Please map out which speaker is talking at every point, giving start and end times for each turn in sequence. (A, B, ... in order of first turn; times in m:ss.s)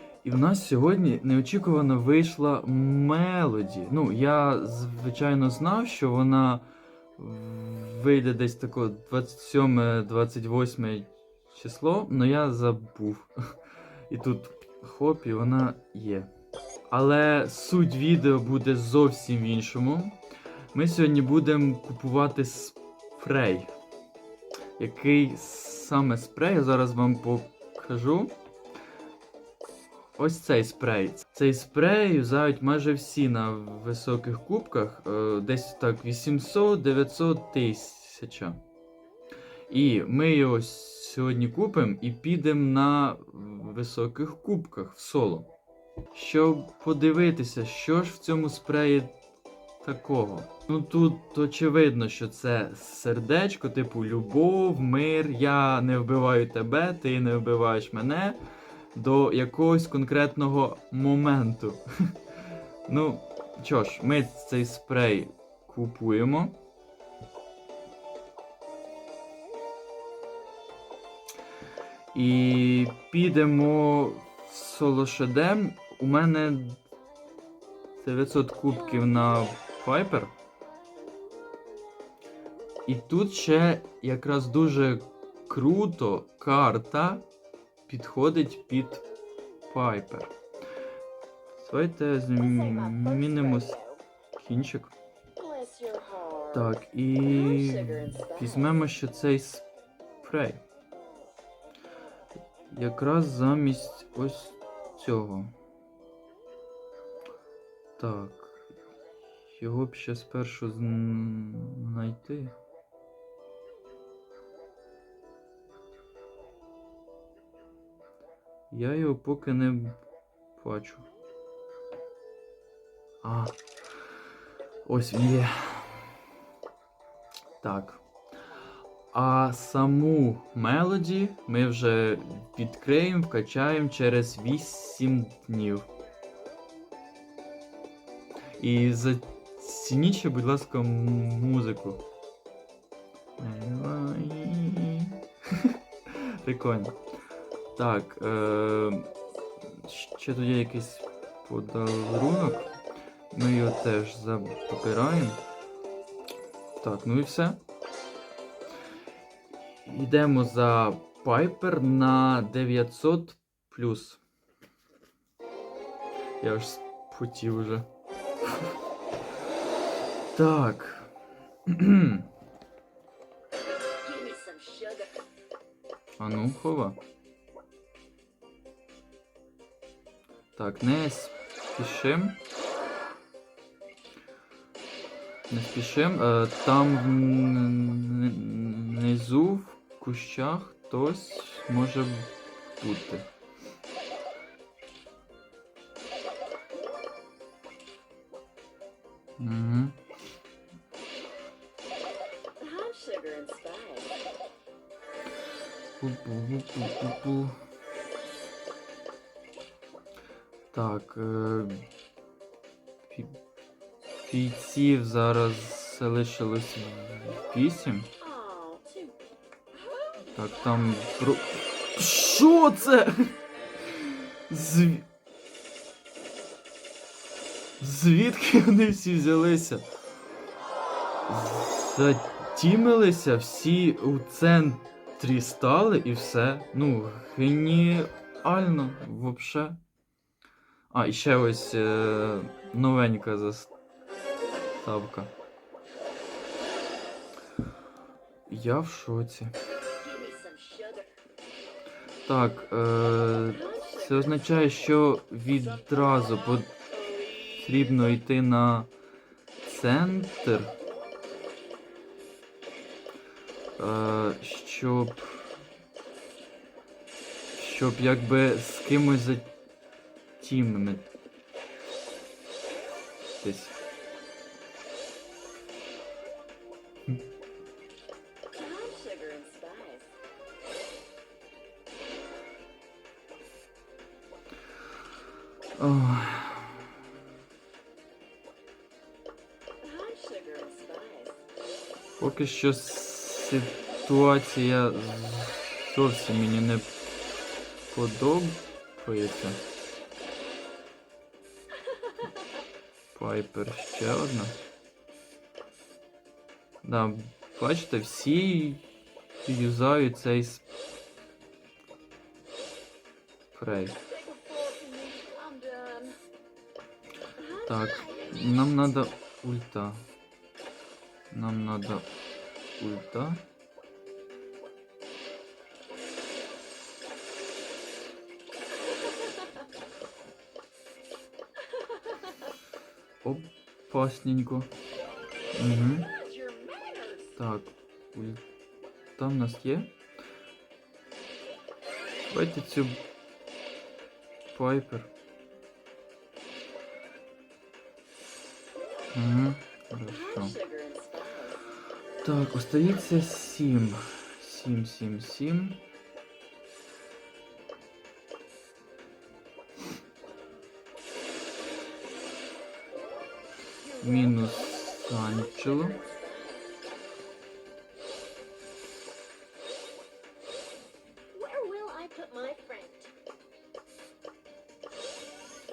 0:00.2-0:16.3 A
0:16.9-0:20.2 A
0:20.7-0:23.7 A
0:24.8-0:28.4 A
0:30.2-0:38.6 A
0:39.7-0:45.5 A
0:46.1-0:49.1 A
0:49.8-0:58.4 A
0:58.9-1:01.8 A
1:02.9-1:06.6 A
1:12.1-1:16.8 A
1:18.0-1:20.3 A
1:22.9-1:27.3 A
1:27.9-1:29.0 A
1:29.7-1:30.3 A
1:31.6-1:33.8 A
1:32.4-1:34.1 B
1:34.4-1:34.9 A
1:35.4-1:36.7 B
1:36.5-1:39.6 A
1:37.3-1:38.7 B
1:40.2-1:40.6 A
1:42.7-1:45.5 A
1:48.0-1:48.7 A
1:49.5-1:52.6 A
1:58.7-2:00.0 A
2:00.6-2:01.1 A
2:03.2-2:03.6 A
2:04.9-2:06.0 A
2:07.6-2:08.0 A
2:09.1-2:15.9 A
2:18.6-2:22.0 A
2:23.4-2:27.0 A
2:27.8-2:29.1 A
2:29.7-2:32.7 A
2:33.3-2:35.4 A
2:36.8-2:37.6 A
2:39.8-2:44.2 A
2:46.4-2:47.9 A
2:50.4-2:51.1 A
2:51.7-2:52.3 A
2:54.0-2:55.2 B
2:56.2-2:57.0 A
3:00.6-3:02.4 A
3:05.5-3:13.3 A
3:19.4-3:20.0 A
3:22.6-3:24.2 B
3:26.0-3:27.6 A
3:30.7-3:31.8 A
3:33.1-3:33.4 A
3:34.2-3:38.1 A
3:38.2-3:39.2 B
3:39.8-3:40.2 B
3:40.3-3:43.4 A
3:44.0-3:45.1 A
3:47.8-3:49.9 A
3:51.3-3:59.8 A
4:00.9-4:03.7 A
4:04.8-4:05.3 A
4:08.5-4:09.6 A
4:10.0-4:11.2 B
4:12.3-4:16.7 A
4:13.6-4:14.4 B
4:17.4-4:18.9 A
4:19.6-4:20.8 A
4:23.8-4:25.5 A
4:27.6-4:29.5 A
4:30.4-4:31.1 A
4:33.4-4:33.8 A
4:38.5-4:40.2 B
4:45.8-4:46.9 A
4:49.8-4:51.4 B
4:52.2-4:56.9 A
4:57.9-4:59.6 A
5:03.1-5:04.6 A
5:06.8-5:08.9 A
5:09.4-5:10.6 A
5:13.5-5:14.0 A
5:14.0-5:16.2 B
5:17.5-5:20.1 A
5:21.3-5:22.1 A
5:22.8-5:23.4 A
5:33.2-5:34.7 A
5:35.6-5:36.1 A
5:36.0-5:37.4 B
5:37.4-5:38.4 A
5:39.2-5:39.9 A
5:42.3-5:43.0 A
5:44.5-5:45.1 A
5:49.1-5:50.6 A
5:50.1-5:51.6 B
5:52.2-5:55.8 A
6:03.8-6:06.7 B
6:04.0-6:06.0 A
6:11.3-6:13.1 B